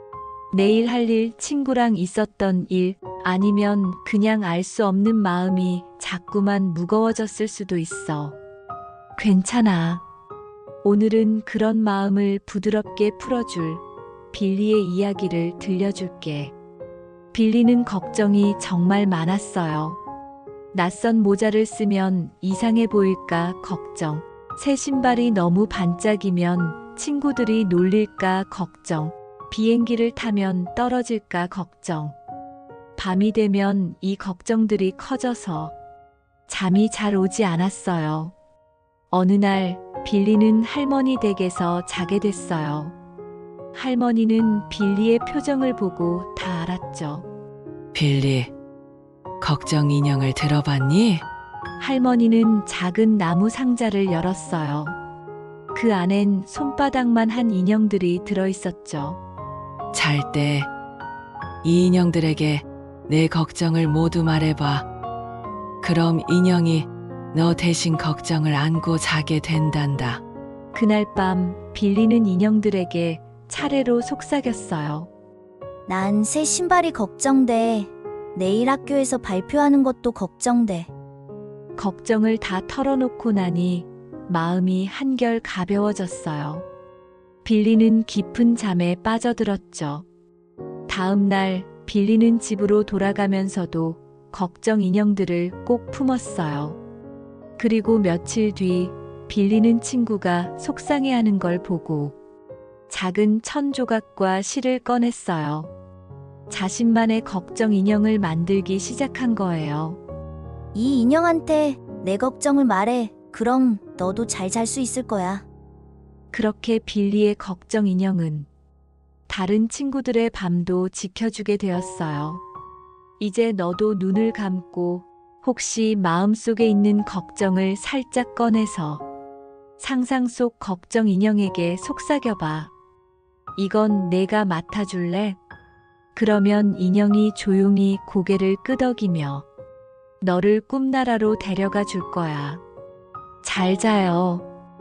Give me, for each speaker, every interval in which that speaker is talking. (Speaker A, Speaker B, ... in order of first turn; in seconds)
Speaker A: 0.5-8.4, 9.2-10.0, 10.8-16.5, 17.3-20.0, 20.7-32.2, 33.0-35.7, 36.5-38.3, 39.1-43.0, 43.7-47.3, 51.8-55.0, 55.7-59.2, 70.7-75.1, 81.8-86.7, 87.4-90.1, 90.9-96.8, 97.6-102.1, 102.9-105.7, 106.5-110.0, 116.3-118.5, 119.3-122.4, 123.2-129.0, 129.8-132.7, 133.6-135.4, 136.1-139.4, 140.2-142.6, 143.4-144.4
Speaker B: 47.9-48.5, 49.4-51.2, 59.9-60.7, 61.6-64.9, 65.8-70.2
Speaker C: 75.9-80.9, 110.7-115.5